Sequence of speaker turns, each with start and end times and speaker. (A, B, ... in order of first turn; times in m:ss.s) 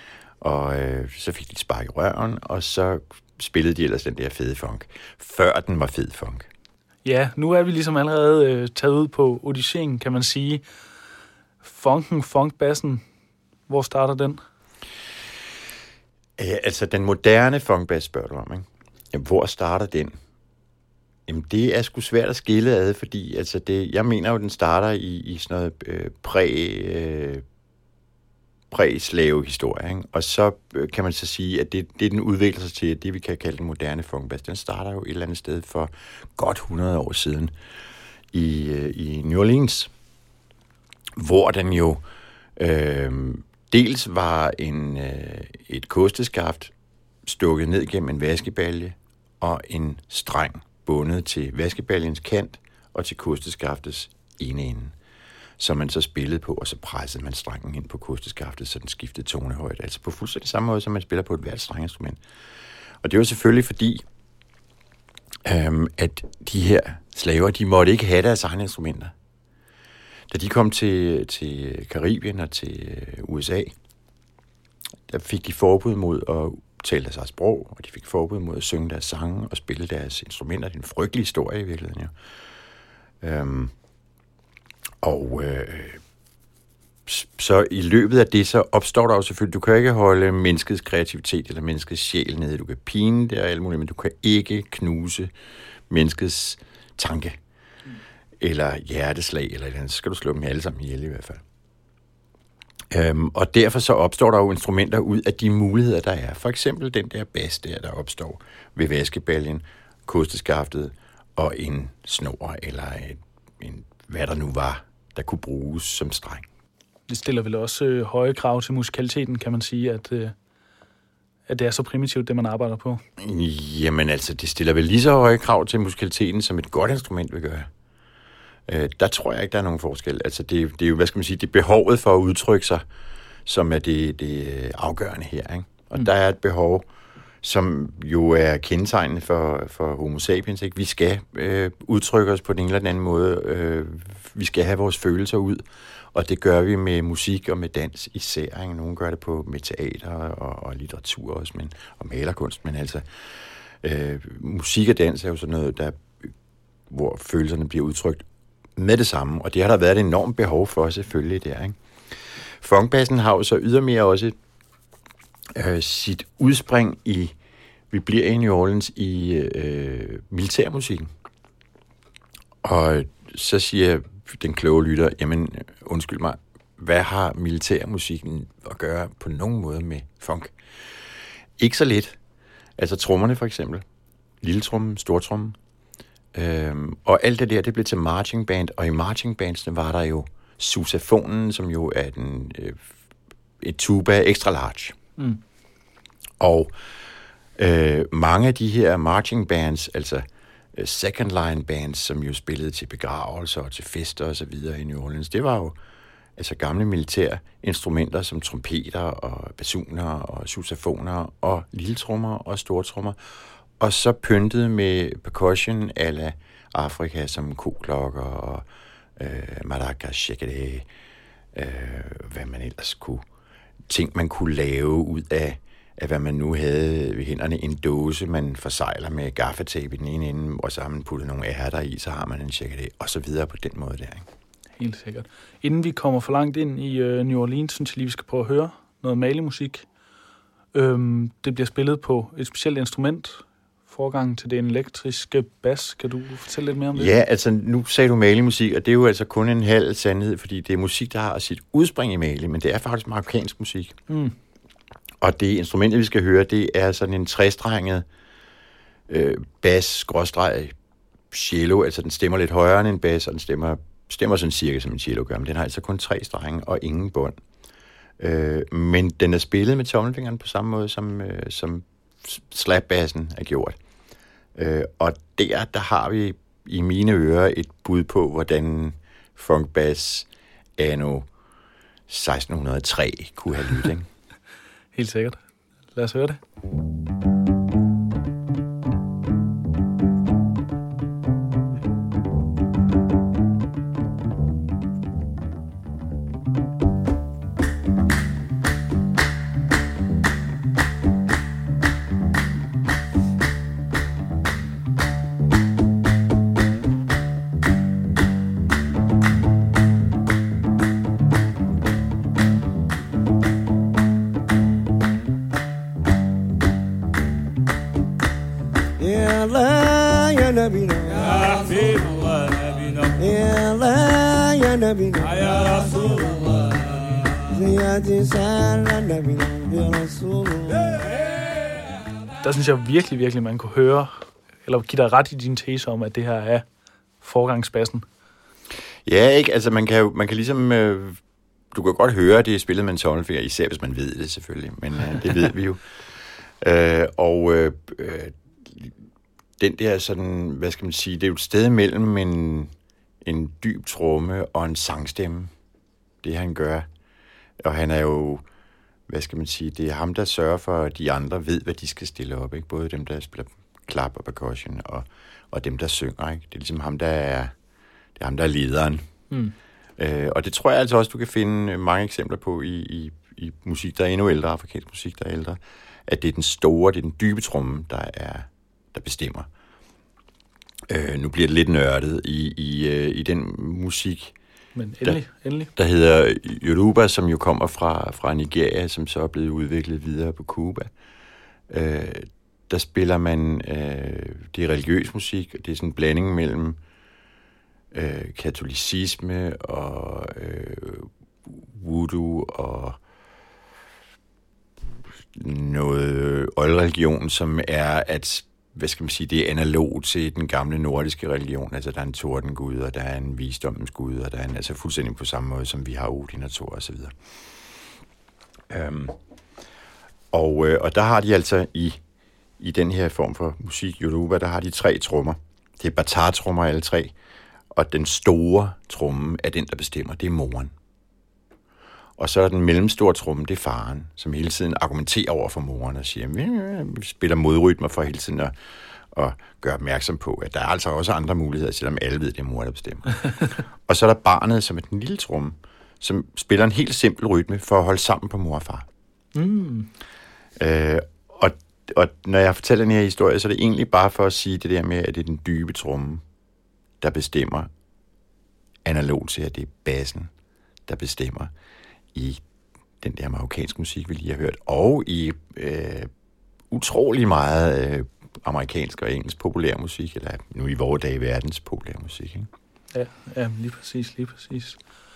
0:00.4-0:06.5 A
0:07.0-0:10.6 B
0:11.6-0:13.0 B
0:13.7-0:14.4 B
0:16.4-0:20.1 A
0:21.3-0:27.4 A
0:28.7-0:37.5 A
0:38.3-0:39.9 A
0:41.2-0:42.0 A
0:42.6-0:46.7 A
0:47.2-0:54.9 A
0:55.6-1:02.2 A
1:03.0-1:04.0 A
1:05.4-1:09.1 A
1:10.3-1:13.7 A
1:15.1-1:22.1 A
1:23.2-1:23.7 A
1:25.0-1:26.0 A
1:27.1-1:35.3 A
1:35.9-1:37.4 A
1:38.4-1:41.4 A
1:42.9-1:56.5 A
1:57.1-2:00.3 B
2:01.5-2:03.0 B
2:03.2-2:07.7 A
2:08.7-2:12.8 A
2:13.4-2:16.8 A
2:17.4-2:33.0 A
2:33.8-2:36.3 A
2:36.9-2:38.2 A
2:38.8-2:41.8 A
2:42.4-2:44.4 A
2:45.5-2:47.3 A
2:47.9-2:51.1 A
2:52.6-3:00.5 A
3:01.6-3:02.2 A
3:02.8-3:03.8 A
3:04.4-3:05.6 A
3:06.3-3:12.8 A
3:13.6-3:15.0 A
3:16.4-3:16.7 A
3:17.6-3:25.8 A
3:26.4-3:33.2 A
3:33.8-3:38.6 A
3:39.2-3:40.9 A
3:41.5-3:43.2 A
3:43.9-3:54.3 A
3:54.8-3:59.9 B
4:00.7-4:07.1 B
4:06.9-4:14.0 A
4:14.1-4:14.4 B
4:15.2-4:18.0 A
4:19.1-4:20.8 A
4:21.3-4:27.4 A
4:28.2-4:33.8 A
4:34.6-4:41.3 A
4:42.1-4:44.1 A
4:44.9-4:45.4 B
4:45.9-4:46.4 B
5:19.0-5:22.2 C
5:23.1-5:26.6 C
5:27.4-5:31.0 C
5:32.4-5:36.6 B
5:37.2-5:38.0 B
5:39.0-5:41.2 A
5:41.7-5:45.8 A
5:46.6-5:48.9 A
5:49.6-5:52.7 A
5:53.2-5:55.5 A
5:56.2-5:56.9 A
5:57.6-5:58.4 A
5:59.1-6:07.5 A
6:08.2-6:09.1 A
6:09.3-6:09.6 B
6:10.0-6:19.5 A
6:20.9-6:24.4 A
6:24.8-6:25.7 B
6:25.8-6:30.9 A
6:31.7-6:36.8 A
6:37.9-6:43.0 A
6:45.3-6:57.1 A
6:58.7-6:59.2 A
7:00.3-7:02.0 A
7:02.6-7:07.1 A
7:07.7-7:10.7 A
7:12.2-7:18.5 A
7:19.1-7:28.9 A
7:29.4-7:29.9 B
7:30.6-7:36.2 A
7:37.0-7:37.7 A
7:38.8-7:40.3 A
7:40.9-7:41.5 A
7:42.1-7:42.4 A
7:43.0-7:46.1 A
7:46.7-7:52.5 A
7:52.9-7:54.8 B